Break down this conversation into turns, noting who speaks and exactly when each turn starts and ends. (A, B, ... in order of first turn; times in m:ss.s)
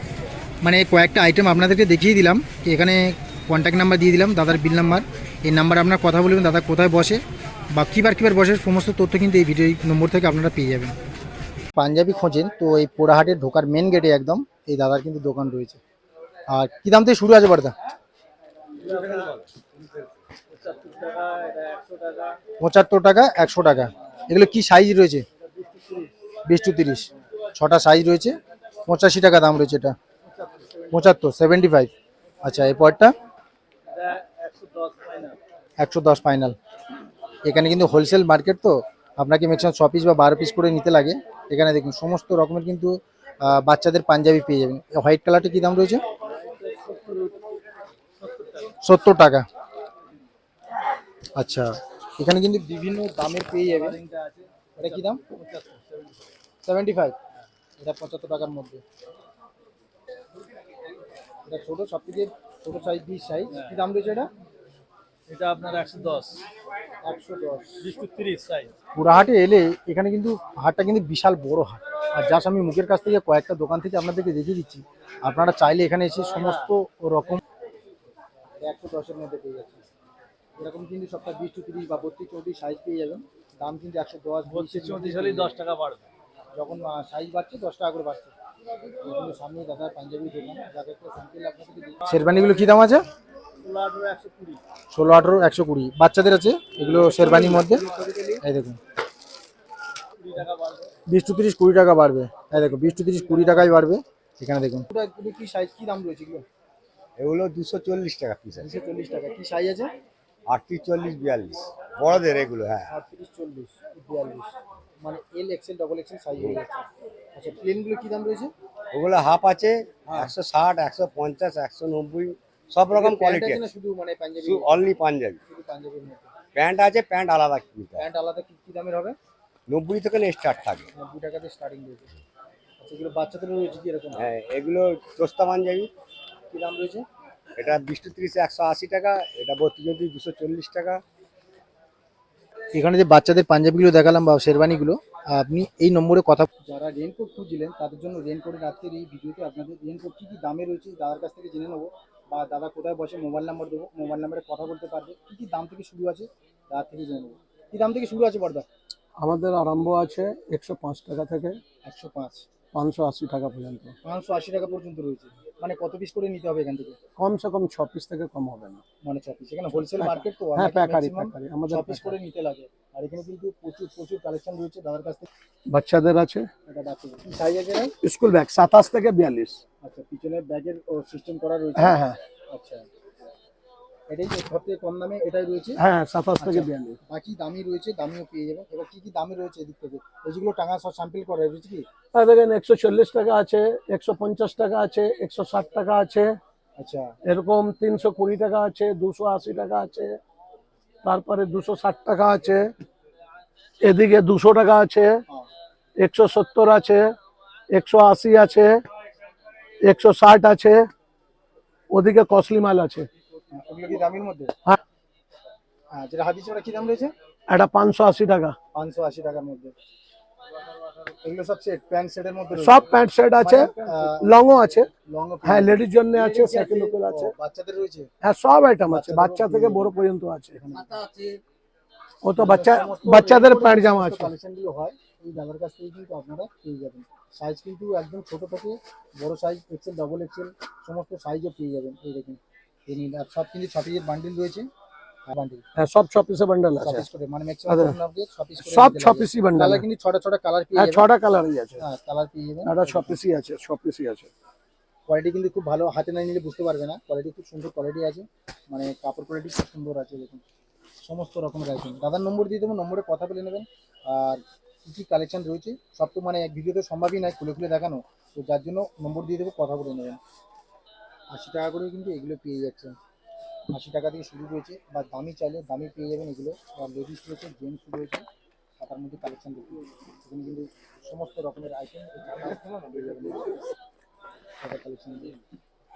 0:00.6-0:10.9 A
0:11.8-0:15.8 A
0:16.5-0:17.7 A
0:18.8-0:19.3 B
0:18.9-0:19.4 C
0:20.5-0:22.4 B
0:22.6-0:25.2 A
0:25.5-0:26.1 B
0:26.4-0:28.4 A
0:28.9-0:30.0 A
0:30.4-0:30.9 B
0:30.9-0:33.1 A
0:33.9-0:35.4 B
0:35.8-0:36.6 A
0:37.4-0:46.0 A
0:46.4-0:47.3 B
0:48.2-0:48.7 B
0:48.8-0:49.4 A
0:51.4-0:54.0 A
0:53.5-0:56.1 B
0:54.8-0:55.2 A
0:56.6-0:57.2 A
0:57.8-0:58.8 A
1:01.5-1:04.3 A
1:05.3-1:06.4 B
1:07.0-1:07.8 A
1:07.8-1:08.7 B
1:09.0-1:17.4 A
1:16.3-1:16.7 B
1:18.6-1:19.8 A
1:20.6-1:25.6 A
1:24.5-1:26.0 B
1:26.5-1:28.3 A
1:29.0-1:33.0 A
1:33.6-1:34.6 B
1:34.9-1:38.8 A
1:37.2-1:38.3 B
1:40.2-1:40.9 B
1:41.1-1:46.4 A
1:47.2-1:48.7 C
1:48.6-1:49.9 A
1:50.5-1:52.9 C
1:52.9-1:58.5 A
1:58.9-2:03.6 C
2:00.1-2:00.3 A
2:02.9-2:06.3 A
2:04.4-2:05.4 C
2:06.5-2:08.0 C
2:08.0-2:09.2 A
2:09.7-2:10.9 C
2:10.9-2:12.1 A
2:12.8-2:14.2 A
2:14.1-2:15.9 C
2:16.5-2:17.0 A
2:17.6-2:21.0 C
2:22.7-2:38.6 A
2:39.2-2:41.6 D
2:41.8-2:42.4 A
2:42.7-2:43.9 D
2:44.0-2:47.0 A
2:47.2-2:48.8 D
2:49.0-2:55.3 A
2:50.0-2:52.1 D
2:55.7-2:56.5 D
2:56.7-2:57.9 A
2:58.0-2:59.6 D
2:59.8-3:02.8 A
3:01.8-3:02.2 D
3:04.1-3:05.8 A
3:05.8-3:07.0 D
3:06.4-3:11.9 A
3:12.1-3:16.4 D
3:16.8-3:17.1 A
3:17.2-3:20.2 D
3:21.0-3:22.7 D
3:23.8-3:25.2 D
3:26.0-3:27.1 D
3:27.7-3:28.8 D
3:29.8-3:30.9 D
3:31.9-3:33.1 D
3:33.5-3:34.5 A
3:35.9-3:37.1 A
3:37.5-3:38.5 D
3:38.7-3:39.7 A
3:41.0-3:44.3 A
3:42.6-3:44.9 D
3:44.9-3:48.1 A
3:45.4-3:47.3 D
3:48.2-3:50.6 D
3:48.8-3:49.9 A
3:50.6-3:51.4 A
3:52.2-3:54.3 D
3:52.3-4:04.7 A
4:05.3-4:05.6 A
4:05.8-4:07.0 D
4:06.8-4:11.1 A
4:07.7-4:08.0 D
4:08.6-4:09.8 D
4:10.7-4:11.8 D
4:11.8-4:13.2 A
4:12.6-4:14.3 D
4:15.1-4:20.4 A
4:21.0-4:30.2 A
4:31.3-4:33.0 A
4:33.7-4:38.2 A
4:38.8-4:43.6 A
4:44.6-4:45.4 A